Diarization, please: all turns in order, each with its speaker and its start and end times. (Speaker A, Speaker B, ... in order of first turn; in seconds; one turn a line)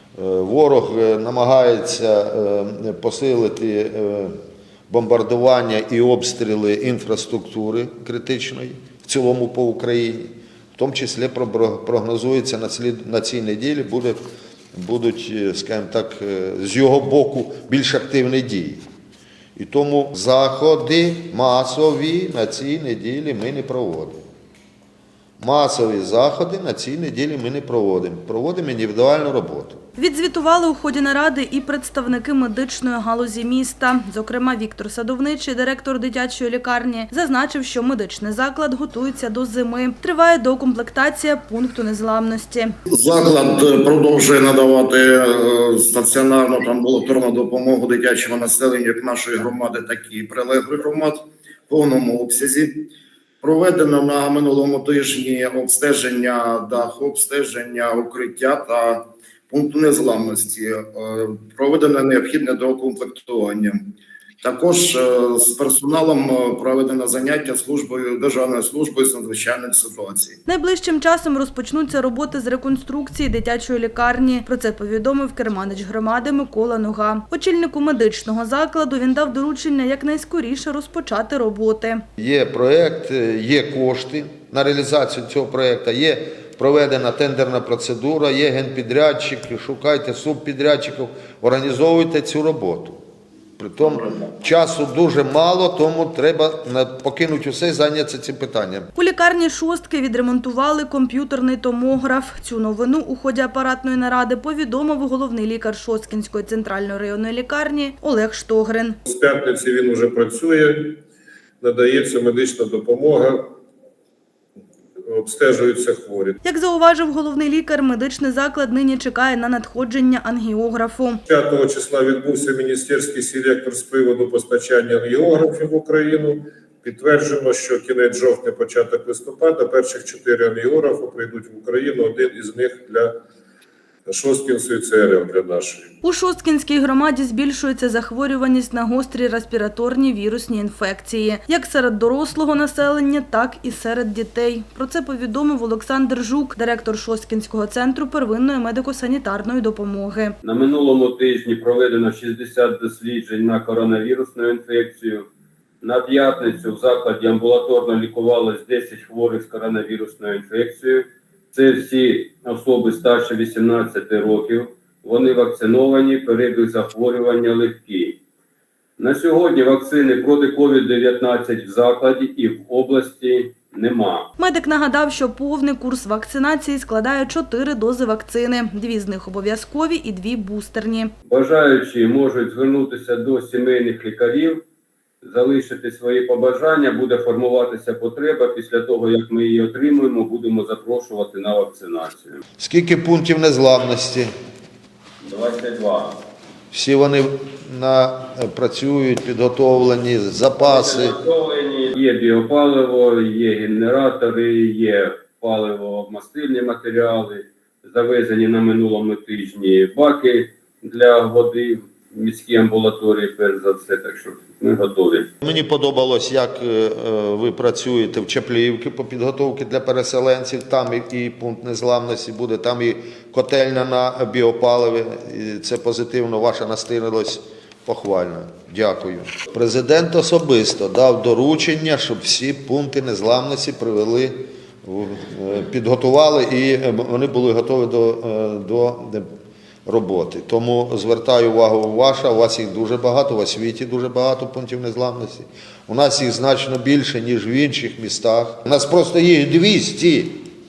Speaker A: 0.2-4.3
Speaker A: 4.9-14.2
Speaker A: 14.7-18.8
Speaker A: 19.6-24.2
Speaker A: 25.4-29.8
Speaker B: 30.0-42.7
Speaker C: 42.9-52.9
Speaker C: 53.4-70.4
Speaker B: 70.5-82.0
Speaker A: 82.2-93.0
Speaker A: 93.6-98.9
Speaker B: 99.0-109.0
Speaker D: 109.0-111.0
Speaker D: 111.6-113.5
Speaker D: 115.1-116.4
Speaker B: 116.4-121.2
Speaker D: 121.2-133.1
Speaker D: 134.1-135.9
Speaker B: 136.0-150.4
Speaker E: 150.4-155.3
Speaker E: 155.8-168.2
Speaker E: 169.0-174.3
Speaker B: 174.4-181.1
Speaker E: 181.2-184.6
Speaker E: 185.2-192.4
Speaker A: 192.6-194.3
Speaker E: 195.2-196.2
Speaker A: 196.7-201.2
Speaker E: 200.6-215.3
Speaker A: 215.4-239.3
Speaker A: 239.8-250.5